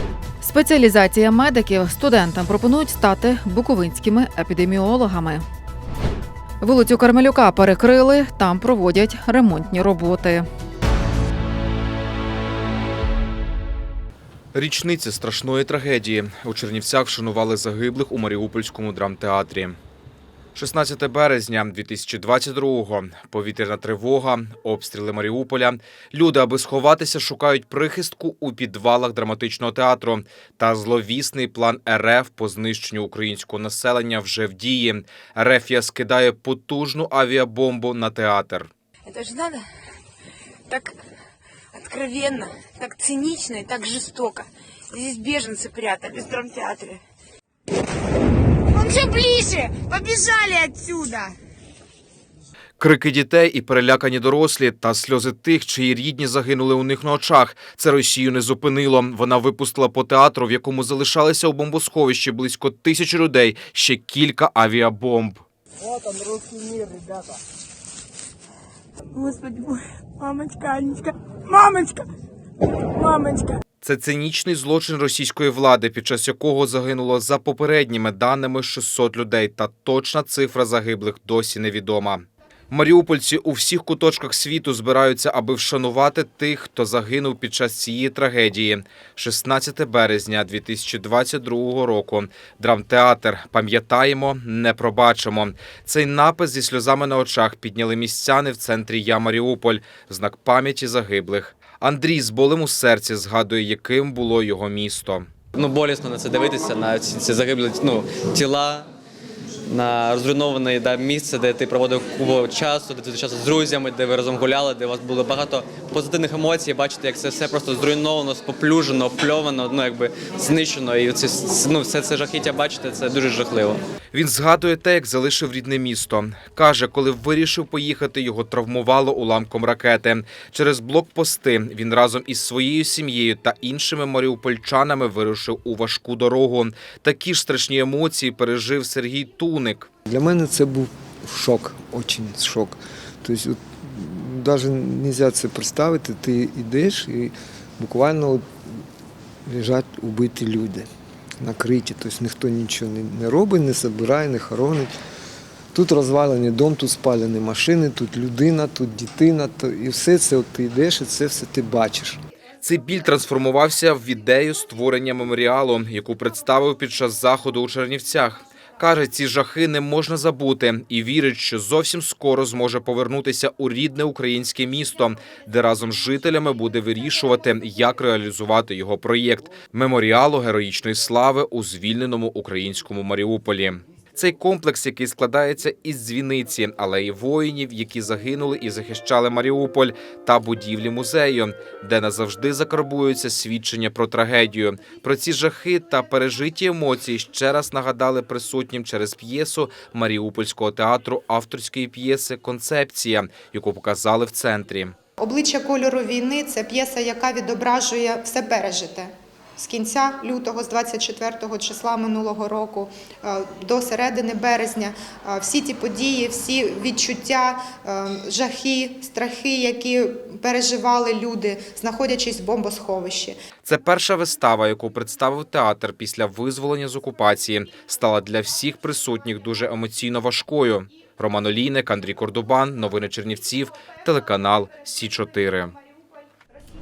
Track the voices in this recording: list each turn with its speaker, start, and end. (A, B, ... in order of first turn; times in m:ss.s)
0:00.4-0:05.5 A
0:06.6-0:10.5 A
0:14.5-0:19.8 B
0:20.6-0:38.7 B
0:39.1-0:39.6 C
0:40.7-0:41.0 C
0:41.8-0:47.0 C
0:48.7-0:51.3 C
0:52.8-1:05.4 B
1:09.2-1:12.0 C
1:13.0-1:13.5 C
1:13.8-1:45.3 B
1:45.6-1:48.9 D
1:49.7-2:03.8 D
2:04.1-2:19.9 B
2:20.1-2:28.7 E
2:29.5-2:30.9 E
2:31.4-2:34.9 E
2:35.7-2:42.2 E
2:42.6-3:25.0 B
3:25.2-3:43.4 F
3:43.6-3:55.7 B